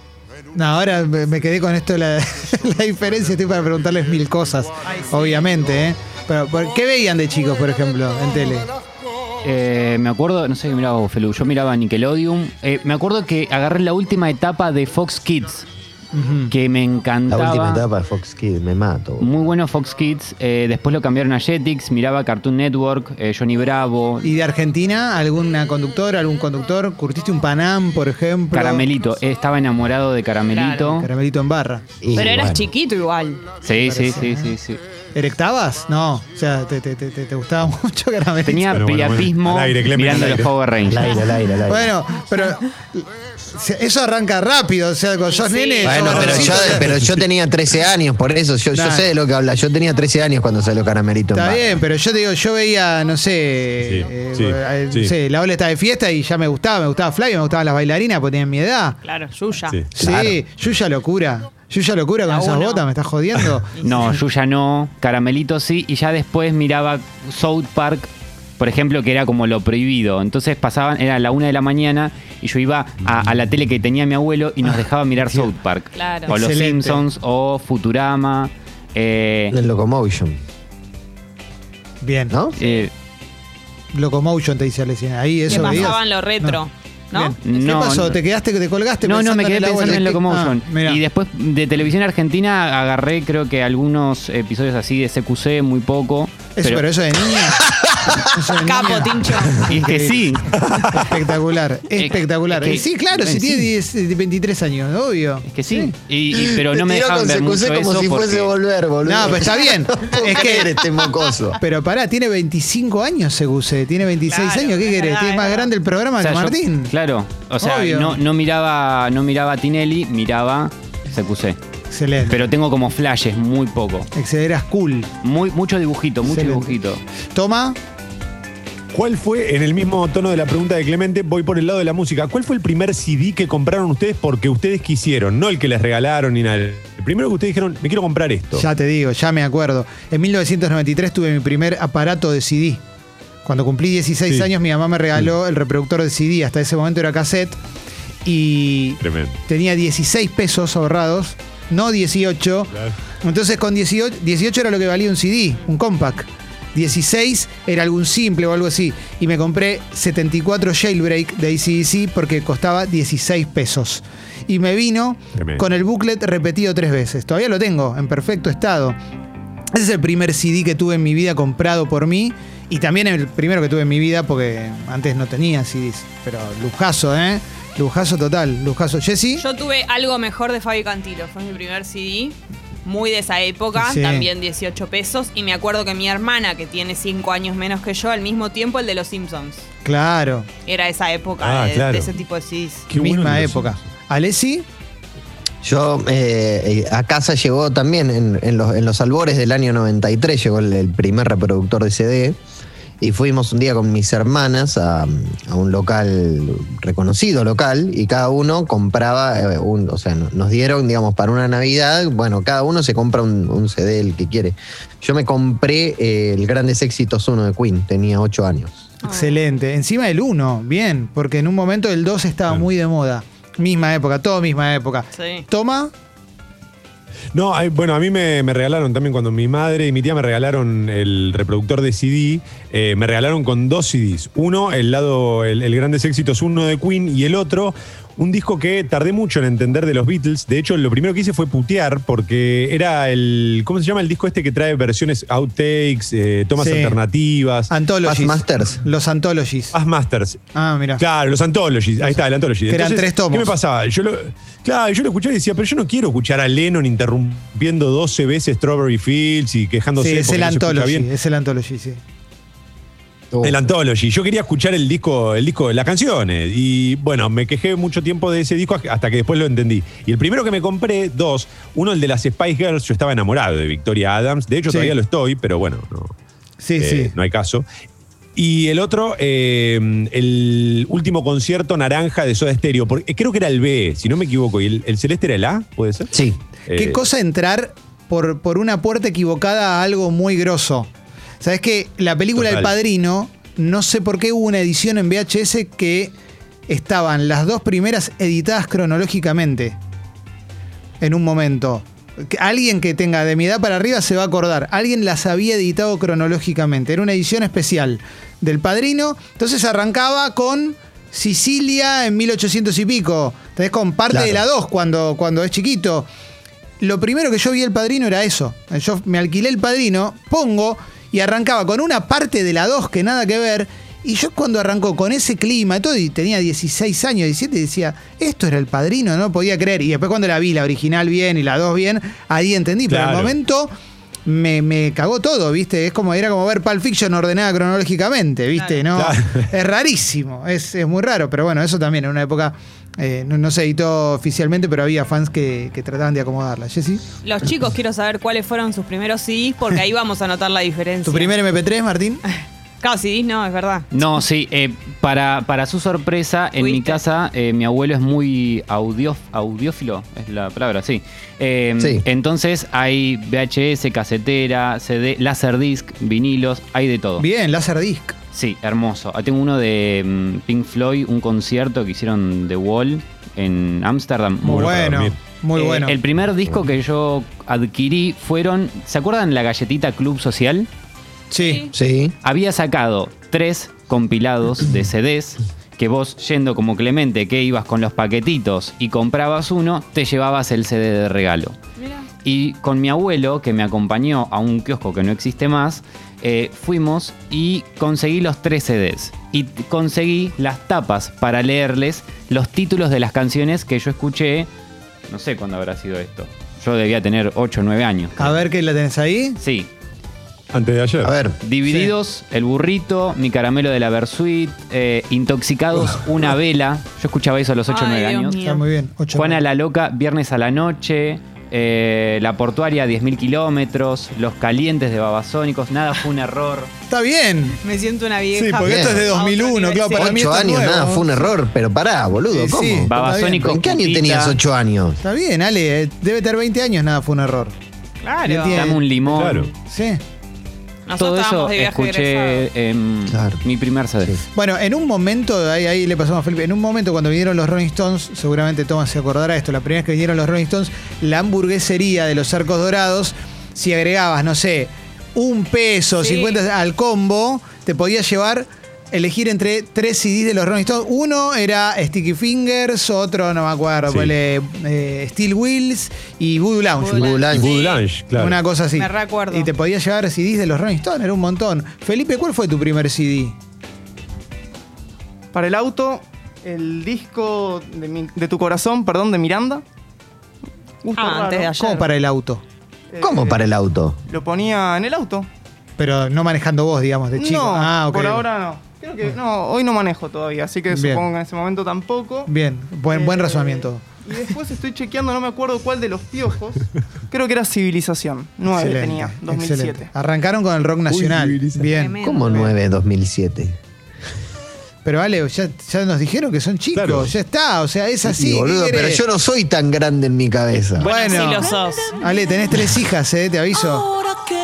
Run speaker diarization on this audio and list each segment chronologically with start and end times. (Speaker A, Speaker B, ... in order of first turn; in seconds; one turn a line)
Speaker A: 0.5-8.7
Speaker B: 4.8-5.7
Speaker C: 9.4-15.7
Speaker A: 16.1-16.5
Speaker C: 16.5-17.8
Speaker D: 17.3-19.3
Speaker C: 19.2-24.3
Speaker A: 24.2-28.9
Speaker C: 28.5-31.1
Speaker B: 30.5-31.0
Speaker A: 31.0-31.8
Speaker D: 32.0-32.7
Speaker B: 32.1-33.5
Speaker C: 33.6-34.8
Speaker A: 33.8-34.5
Speaker A: 35.1-38.8
Speaker C: 38.4-41.1
Speaker E: 38.7-40.6
Speaker D: 40.2-41.9
Speaker A: 41.7-47.0
Speaker B: 45.2-46.6
Speaker D: 45.8-51.8
Speaker E: 46.1-47.2
Speaker A: 48.7-49.1
Speaker A: 51.3-59.0
Speaker E: 53.8-55.1
Speaker B: 59.0-59.8
Speaker A: 59.9-63.8
Speaker D: 60.0-60.4
Speaker B: 62.3-62.8
Speaker B: 63.8-64.1
Speaker C: 63.8-79.5
Speaker A: 74.6-75.5
Speaker B: 76.0-76.3
Speaker A: 76.3-77.0
Speaker D: 79.5-80.4
Speaker A: 82.0-82.3
Speaker D: 82.3-82.5
Speaker C: 82.6-82.9
Speaker B: 82.6-82.9
Speaker A: 83.9-86.6
Speaker B: 85.5-87.4
Speaker A: 87.1-91.0
Speaker C: 87.4-88.2
Speaker C: 89.0-96.8
Speaker D: 89.8-90.2
Speaker A: 96.5-97.7
Speaker D: 97.8-98.2
Speaker A: 98.2-100.2
Speaker B: 98.6-99.5
Speaker C: 99.6-101.0
Speaker E: 100.6-101.0
Speaker A: 100.9-105.9
Speaker C: 102.0-103.7
Speaker C: 105.5-108.5
Speaker D: 106.3-111.6
Speaker A: 109.0-110.8
Speaker A: 111.6-116.9
Speaker B: 114.3-115.7
Speaker C: 116.2-121.6
Speaker A: 117.6-118.2
Speaker A: 121.9-122.4
Speaker C: 122.2-124.1
Speaker A: 124.1-125.1
Speaker C: 125.2-127.0
Speaker A: 126.2-126.8
Speaker A: 127.3-127.8
Speaker E: 128.9-138.7
Speaker A: 138.6-142.8
Speaker A: 143.4-147.6
Speaker A: 148.2-168.9
Speaker E: 149.0-149.4
Speaker E: 165.3-165.6
Speaker A: 169.7-179.4
Speaker B: 179.4-189.7
Speaker A: 183.8-184.3
Speaker A: 189.8-190.5
Speaker B: 190.7-192.9
Speaker E: 191.4-192.1
Speaker E: 192.9-193.8
Speaker A: 192.9-194.6
Speaker D: 195.6-202.4
Speaker D: 203.0-218.9
Speaker B: 219.0-219.4
Speaker A: 219.1-225.9
Speaker B: 225.2-225.4
Speaker E: 227.3-247.7
Speaker A: 246.6-247.0
Speaker A: 247.7-249.8
Speaker D: 248.0-248.8
Speaker E: 249.7-250.4
Speaker A: 250.5-251.0
Speaker E: 251.0-261.1
Speaker A: 252.0-253.5
Speaker A: 260.0-262.0
Speaker D: 263.3-263.6
Speaker E: 263.4-276.1
Speaker A: 274.7-274.9
Speaker A: 276.6-277.1
Speaker E: 276.8-277.6
Speaker E: 278.4-286.1
Speaker D: 286.1-286.4
Speaker E: 286.7-287.0
Speaker A: 286.7-290.9
Speaker A: 291.4-296.1
Speaker E: 292.4-292.7
Speaker A: 296.7-299.8
Speaker A: 301.0-316.1
Speaker D: 314.1-314.4
Speaker A: 316.8-333.7
Speaker E: 332.9-333.3
Speaker A: 334.2-347.0
Speaker B: 338.5-338.8
Speaker E: 338.9-339.5
Speaker B: 347.2-351.3
Speaker A: 351.0-352.2
Speaker B: 352.8-353.9
Speaker C: 353.9-367.2
Speaker B: 356.6-357.0
Speaker D: 361.8-362.0
Speaker A: 367.2-368.1
Speaker C: 368.3-374.7
Speaker A: 374.4-376.0
Speaker E: 374.5-375.2
Speaker C: 375.5-380.7
Speaker A: 381.3-381.6
Speaker B: 381.4-381.7
Speaker D: 381.7-382.1
Speaker C: 382.2-391.6
Speaker B: 391.8-392.1
Speaker C: 392.2-404.5
Speaker C: 405.1-408.4
Speaker A: 408.2-409.4
Speaker C: 409.4-409.7
Speaker E: 410.5-411.1
Speaker D: 411.0-411.4
Speaker C: 411.4-418.3
Speaker A: 411.7-411.9
Speaker B: 417.7-418.6
Speaker A: 418.4-419.4
Speaker C: 419.1-426.7
Speaker A: 426.9-427.6
Speaker B: 427.6-430.1
Speaker A: 428.4-431.3
Speaker D: 428.6-429.1
Speaker D: 429.9-435.0
Speaker A: 432.3-433.4
Speaker C: 432.9-434.4
Speaker A: 435.0-437.5
Speaker B: 438.0-438.6
Speaker A: 438.2-440.0
Speaker C: 438.5-439.5
Speaker E: 439.1-439.5
Speaker B: 440.9-442.4
Speaker C: 441.0-444.1
Speaker D: 443.1-443.4
Speaker A: 444.3-467.1
Speaker B: 456.0-456.4
Speaker E: 463.9-464.1
Speaker D: 466.9-467.5
Speaker F: 467.0-467.3
Speaker B: 467.0-467.8
Speaker E: 467.4-468.4
Speaker A: 468.1-473.3
Speaker B: 468.8-469.5
Speaker F: 475.3-479.6
Speaker F: 480.8-481.5
Speaker B: 480.9-481.9
Speaker A: 481.5-482.4
Speaker F: 482.9-483.5
Speaker D: 483.0-484.0
Speaker F: 484.1-485.3
Speaker A: 485.8-488.2
Speaker F: 487.1-492.3
Speaker A: 490.7-491.0
Speaker A: 492.2-493.8
Speaker F: 492.9-499.9
Speaker A: 498.5-502.0
Speaker E: 500.9-501.7
Speaker B: 501.7-502.5
Speaker D: 502.0-503.6
Speaker A: 504.8-509.0
Speaker E: 506.7-507.1
Speaker D: 508.0-510.9
Speaker B: 510.8-512.0
Speaker A: 510.8-513.9